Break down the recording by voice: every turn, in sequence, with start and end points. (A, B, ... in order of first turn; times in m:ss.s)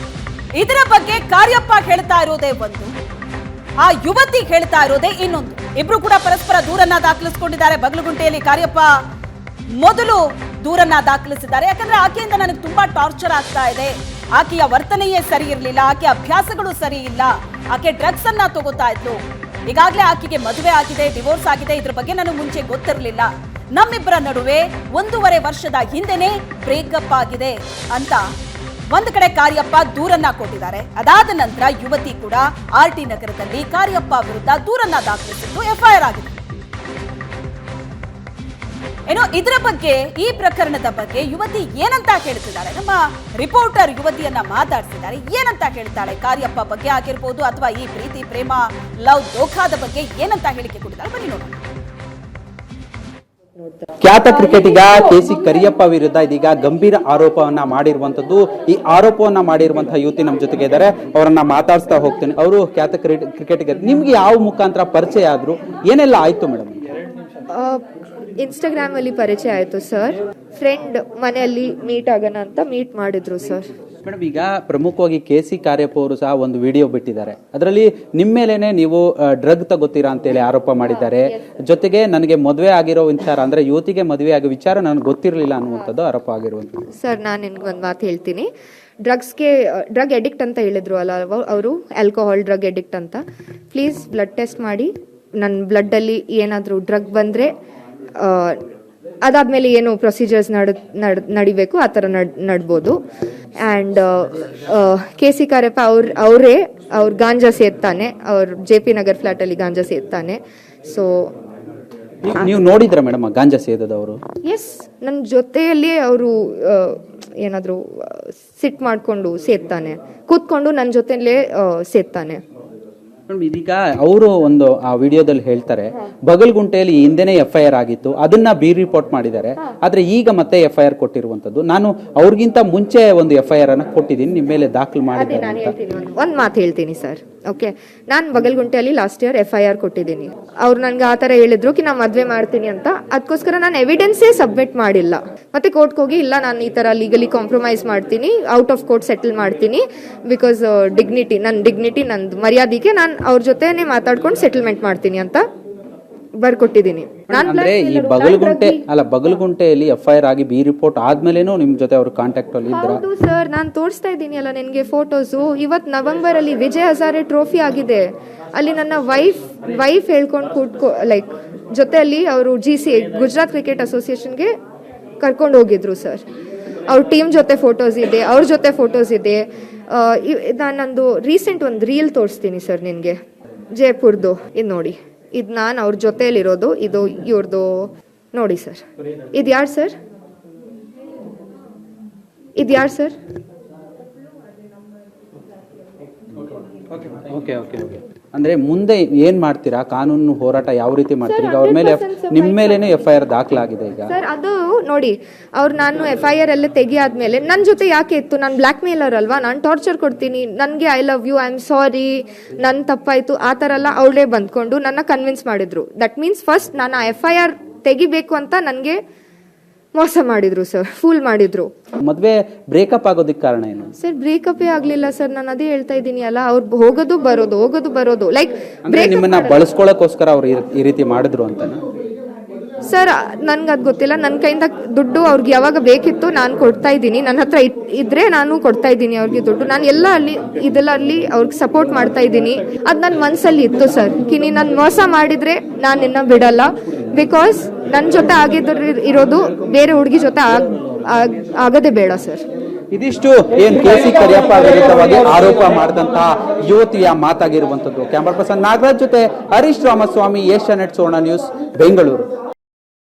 0:00.6-0:02.9 A
0:03.8-0:08.9 A
0:09.8-0:28.2 A
0:28.9-0:36.4 A
0:39.1-0:51.6 A
0:54.0-1:06.8 B
1:07.5-1:07.8 C
1:08.4-1:13.7 C
1:14.0-1:26.8 B
1:21.0-1:21.3 C
1:27.0-1:28.5 C
1:29.0-1:33.2 C
1:33.7-1:37.5 C
1:38.2-1:38.6 C
1:39.2-1:43.0 C
1:43.6-1:51.3 C
1:52.2-1:54.2 B
1:54.4-2:02.4 C
2:03.3-2:15.8 B
2:15.1-2:35.4 C
2:36.4-2:38.8 C
2:37.3-2:43.0 B
2:42.7-2:54.5 C
2:55.2-2:56.2 C
2:56.9-3:03.2 C
3:03.8-3:08.8 C
3:09.3-3:10.0 C
3:12.6-3:13.2 C
3:17.0-3:24.1 B
3:21.3-3:23.0 C
3:24.1-3:39.0 C
3:40.0-3:41.7 C
3:42.0-3:43.9 B
3:44.0-3:49.6 C
3:48.9-3:51.8 B
3:52.9-4:12.4 C
4:12.9-4:22.3 B